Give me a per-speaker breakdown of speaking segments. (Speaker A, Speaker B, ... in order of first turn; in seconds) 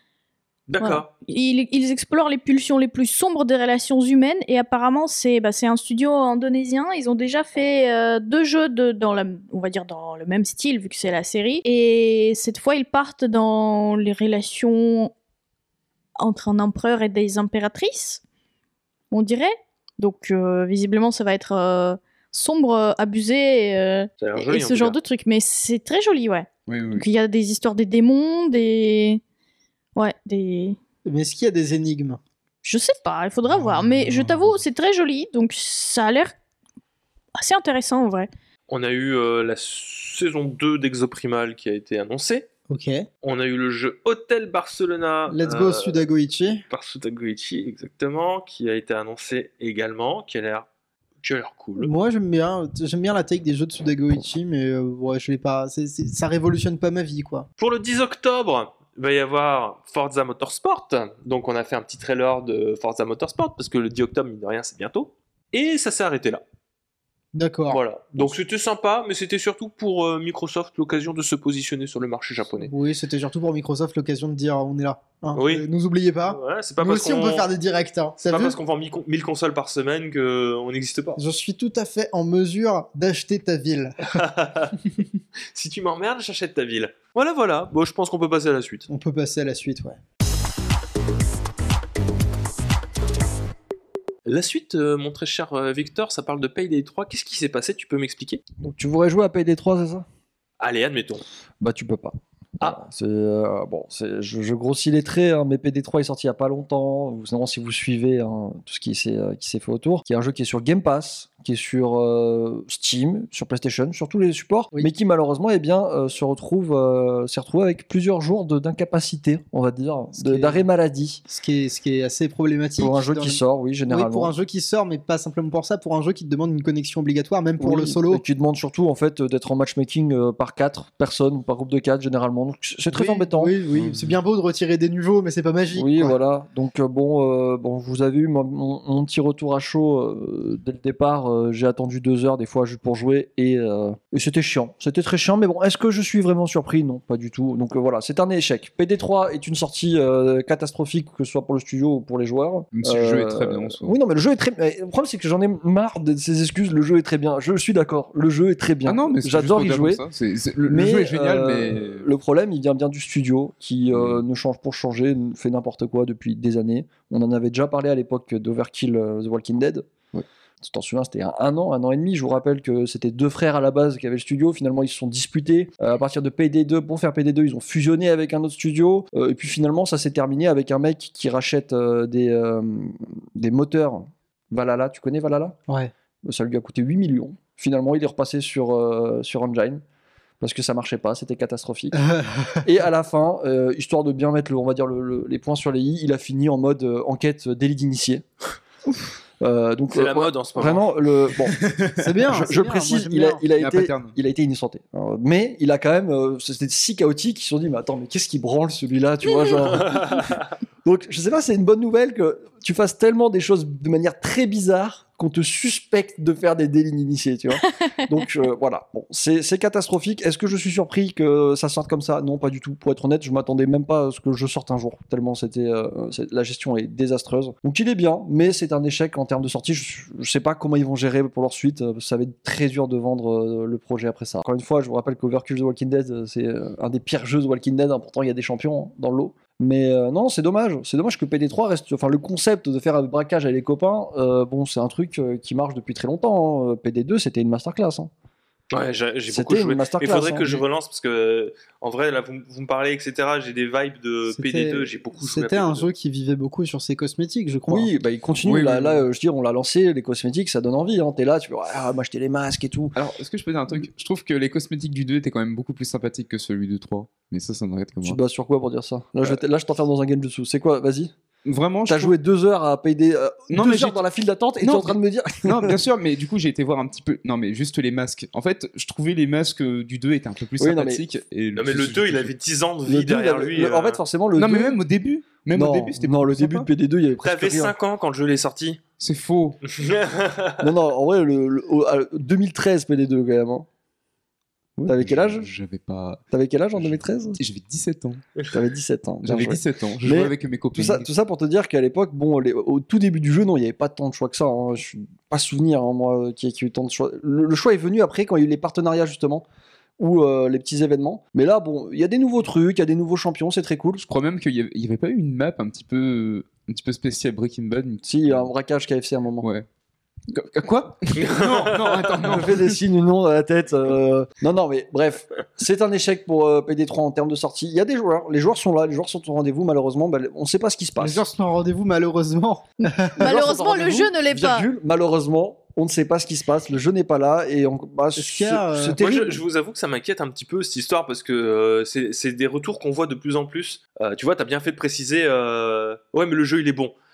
Speaker A: 0.7-1.1, 24.2-24.9, 38.7-42.5, 43.2-46.0, 46.7-50.7, 51.2-51.9, 57.6-66.4, 67.7-72.7, 75.3-75.7, 76.3-77.5, 78.2-81.2, 84.1-84.9, 85.5-88.9, 94.2-98.4, 100.6-101.2, 199.9-200.9, 209.6-210.4, 248.7-255.9, 281.5-284.0, 287.2-288.8, 289.6-290.7, 321.1-322.2, 338.9-346.9
Speaker B: 0.8-15.1, 16.2-18.2, 19.1-29.2, 29.9-30.8, 32.6-36.4, 37.4-38.3, 217.6-217.9, 333.1-334.7
Speaker C: 26.7-27.1, 133.7-134.2, 152.7-154.0, 158.8-162.1, 163.9-164.2, 201.5-202.0, 203.6-204.2, 258.4-259.1, 262.9-268.2, 271.4-272.2, 273.5-274.0, 275.4-282.3, 284.4-286.7, 289.0-289.6, 294.8-298.2, 299.2-301.1, 314.0-318.5, 319.4-319.7, 320.3-322.8
Speaker D: 31.0-32.2, 42.7-43.0, 45.3-46.6, 51.8-57.5, 67.3-67.8, 72.6-78.6, 81.2-84.2, 88.9-90.0, 120.2-120.6, 121.3-128.2, 132.9-136.2, 191.9-192.6, 202.0-203.4, 254.3-257.9, 274.6-274.9, 331.0-333.3, 338.1-339.0
Speaker E: 98.6-100.0, 101.6-121.2, 122.8-124.3, 127.6-133.6, 135.7-160.0, 160.7-170.0, 170.6-185.6, 186.2-189.8, 190.4-192.0, 192.6-198.2, 199.4-201.6, 202.3-210.3, 210.8-248.1, 249.3-250.6, 257.7-263.0, 268.0-271.1, 271.9-275.8, 280.6-281.0, 282.8-284.8, 285.5-287.7, 290.6-293.6, 294.9-295.5, 296.3-297.4, 298.5-309.4, 310.0-314.0, 318.0-319.5, 322.2-331.2, 333.2-339.4